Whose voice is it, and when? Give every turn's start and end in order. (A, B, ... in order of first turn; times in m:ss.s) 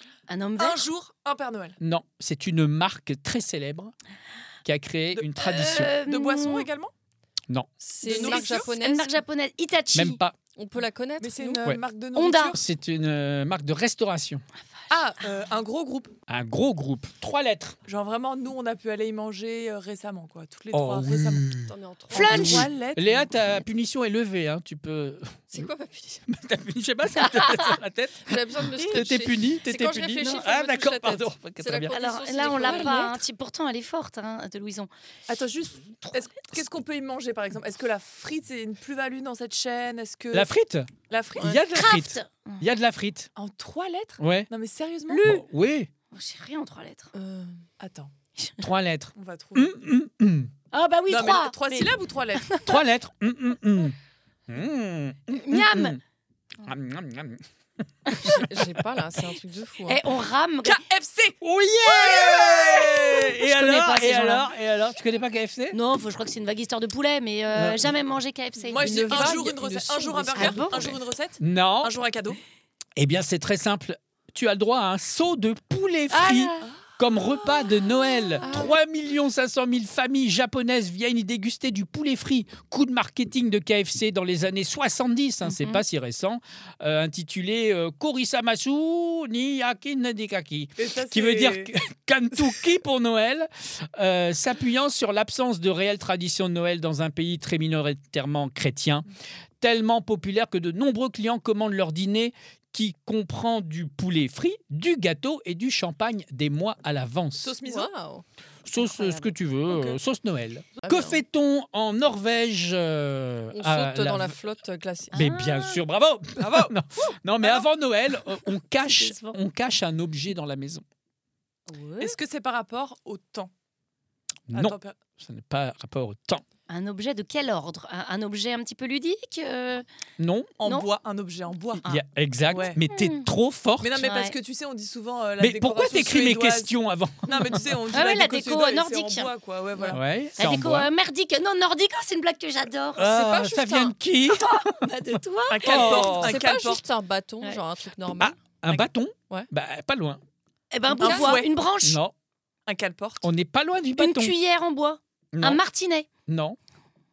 0:00.3-0:00.9 A
0:00.6-0:01.8 B
0:01.8-0:03.9 C
0:04.6-0:05.9 C
0:05.2-0:06.9 B
0:05.4-0:06.7 A
0:07.8-0:09.2 D
0:08.0-0:08.7 B
0:08.1-0:10.2 A
0:09.9-0:10.4 C
0:10.5-0:11.6 D
0:11.2-0:12.6 B
0:12.1-0:12.6 A
0:12.5-0:14.4 C
0:14.9-0:16.1 B
0:16.3-0:17.8 C
0:17.8-0:21.6 B
0:20.7-0:25.7 C
0:21.6-0:22.6 D
0:22.1-0:23.3 B
0:22.1-0:22.7 A
0:25.5-0:26.2 D
0:26.3-0:32.0 C
0:27.2-0:27.8 A
0:28.2-0:33.2 D
0:31.9-0:34.9 A
0:32.4-0:33.0 B
0:35.3-0:40.5 B
0:40.3-0:43.3 C
0:41.1-0:41.6 B
0:41.7-0:42.6 A
0:43.4-0:45.3 B
0:44.2-0:44.5 C
0:45.1-0:45.4 A
0:45.2-0:45.9 C
0:46.1-0:47.1 A
0:47.1-0:47.6 D
0:47.8-0:48.1 B
0:48.6-0:50.5 C
0:49.1-0:49.7 B
0:50.7-0:51.9 A
0:51.1-0:52.6 B
0:52.5-0:52.7 A
0:52.6-0:54.0 C
0:54.5-0:56.0 C
0:55.3-0:56.0 A
0:56.6-0:57.4 C
0:58.0-0:58.4 A
0:58.1-0:58.8 C
0:58.2-1:00.0 D
0:59.8-1:00.8 A
1:00.6-1:01.4 B
1:01.4-1:05.8 C
1:02.0-1:02.8 B
1:02.7-1:04.5 A
1:05.7-1:09.4 A
1:07.5-1:07.8 C
1:08.6-1:12.4 B
1:08.8-1:11.0 D
1:10.4-1:10.9 A
1:11.4-1:11.9 C
1:13.0-1:39.0 C
1:16.1-1:16.7 A
1:18.4-1:18.7 B
1:30.8-1:31.7 B
1:39.6-1:47.6 C
1:47.4-1:47.9 B
1:47.6-1:48.2 D
1:48.6-1:54.4 C
1:48.8-1:49.2 A
1:49.7-1:50.0 B
1:50.8-1:51.2 D
1:53.5-1:55.2 D
1:55.1-1:55.8 A
1:55.1-2:00.8 C
1:56.4-1:57.7 B
1:58.8-1:59.4 A
2:01.7-2:02.2 A
2:02.0-2:03.5 B
2:04.5-2:06.4 C
2:04.5-2:05.0 B
2:06.7-2:09.8 A
2:10.2-2:10.5 C
2:10.6-2:11.8 B
2:11.8-2:14.0 C
2:12.5-2:12.8 B
2:12.9-2:13.3 A
2:13.8-2:20.0 B
2:14.0-2:14.3 A
2:15.4-2:17.6 C
2:17.9-2:19.3 A
2:19.9-2:20.9 C
2:20.4-2:26.2 A
2:23.0-2:26.4 C
2:25.5-2:26.8 B
2:25.8-2:28.4 D
2:28.2-2:30.2 C
2:30.7-2:32.0 A
2:31.0-2:31.5 B
2:31.0-2:31.4 D
2:31.8-2:32.1 C
2:32.6-2:33.3 B
2:33.2-2:34.3 C
2:34.0-2:36.1 A
2:35.3-2:35.6 C
2:36.3-2:36.6 C